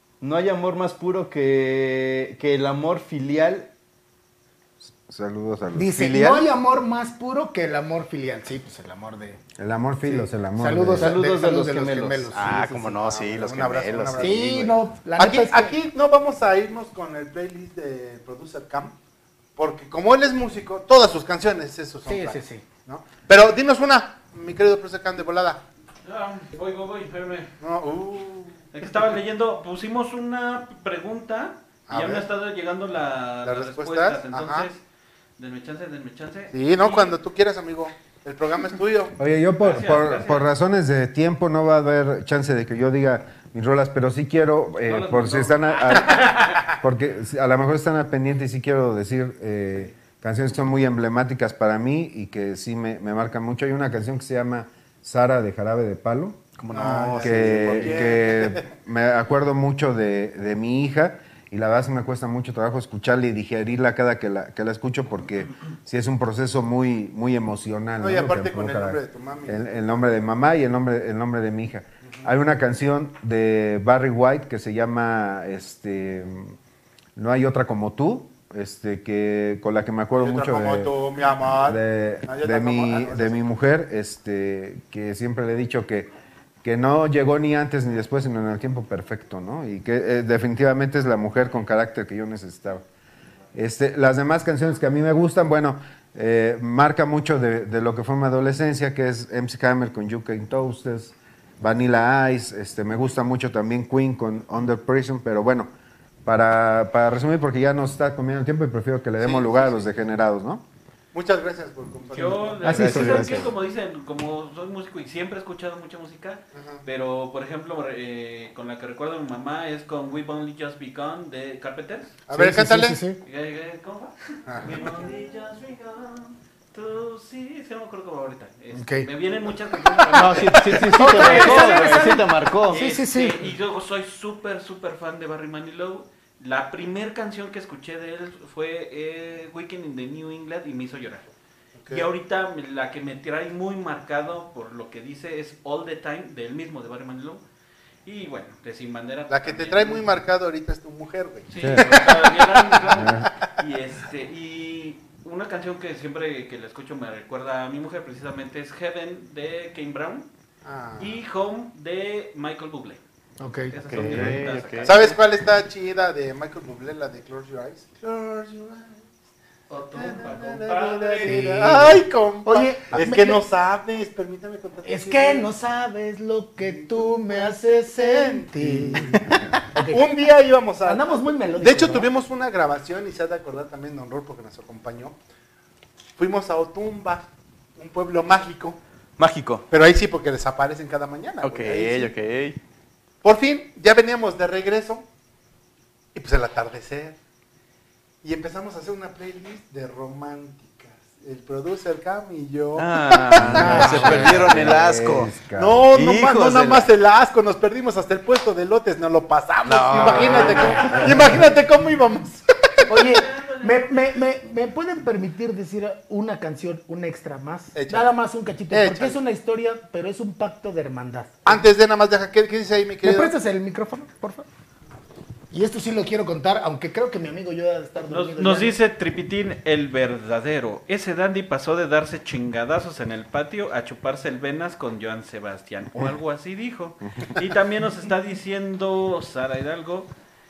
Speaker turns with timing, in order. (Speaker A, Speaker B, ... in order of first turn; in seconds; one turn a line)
Speaker A: 0.2-3.7
Speaker B: 4.8-5.9
Speaker C: 5.8-9.4
Speaker A: 5.9-6.5
Speaker B: 9.6-11.2
Speaker C: 10.0-13.0
Speaker A: 10.9-14.8
Speaker D: 12.9-14.6
Speaker C: 14.2-15.7
Speaker D: 15.2-18.9
Speaker D: 19.6-25.6
Speaker C: 22.1-22.6
Speaker E: 26.1-27.5
Speaker D: 27.6-28.7
Speaker E: 28.7-34.8
Speaker D: 31.9-32.3
Speaker D: 33.4-34.7
Speaker E: 35.4-37.2
Speaker D: 36.5-39.1
Speaker B: 39.2-56.4
Speaker E: 39.6-40.5
Speaker E: 44.9-46.7
Speaker A: 56.6-58.0
Speaker D: 56.7-58.7
Speaker B: 57.2-76.6
Speaker D: 68.0-69.7
Speaker B: 77.2-81.0
Speaker D: 80.2-83.5
Speaker B: 81.5-86.1
Speaker B: 86.6-92.8
Speaker B: 93.5-105.7
Speaker B: 106.2-110.6
Speaker D: 109.2-109.9
Speaker D: 111.1-112.9
Speaker E: 112.1-122.2
Speaker A: 112.6-113.5
Speaker B: 112.7-113.1
Speaker C: 112.8-113.4
Speaker D: 116.5-116.8
Speaker D: 122.3-123.0
Speaker C: 122.3-123.2
Speaker E: 123.2-141.3
Speaker D: 124.5-124.9
Speaker C: 128.7-129.1
Speaker C: 129.8-133.4
Speaker A: 130.1-132.8
Speaker D: 141.8-142.1
Speaker E: 141.9-147.4
Speaker E: 148.1-150.1
Speaker D: 149.3-153.0
Speaker E: 151.5-160.3
Speaker B: 151.6-152.0
Speaker B: 152.9-153.3
Speaker D: 160.7-161.2
Speaker E: 161.0-163.0
Speaker C: 163.4-163.7
Speaker E: 163.7-165.2
Speaker A: 163.9-164.9
Speaker D: 164.8-169.1
Speaker E: 169.7-171.5
Speaker D: 169.9-175.5
Speaker C: 171.3-173.4
Speaker A: 171.6-172.0
Speaker C: 174.8-179.2
Speaker D: 176.7-179.2
Speaker C: 179.7-180.0
Speaker D: 179.9-185.2
Speaker C: 180.8-182.1
Speaker D: 186.2-188.8
Speaker A: 189.2-189.7
Speaker D: 189.7-192.1
Speaker A: 191.4-192.6
Speaker D: 193.2-195.1
Speaker D: 196.2-197.2
Speaker D: 198.2-204.7
Speaker A: 202.8-205.3
Speaker E: 203.3-204.1
Speaker B: 203.4-205.9
Speaker D: 205.5-212.9
Speaker A: 205.9-206.9
Speaker A: 209.6-211.1
Speaker C: 212.9-221.6
Speaker E: 213.0-213.9
Speaker D: 217.7-218.1
Speaker D: 218.7-219.2
Speaker D: 221.5-223.3
Speaker C: 223.0-224.5
Speaker C: 225.5-228.8
Speaker E: 228.1-240.1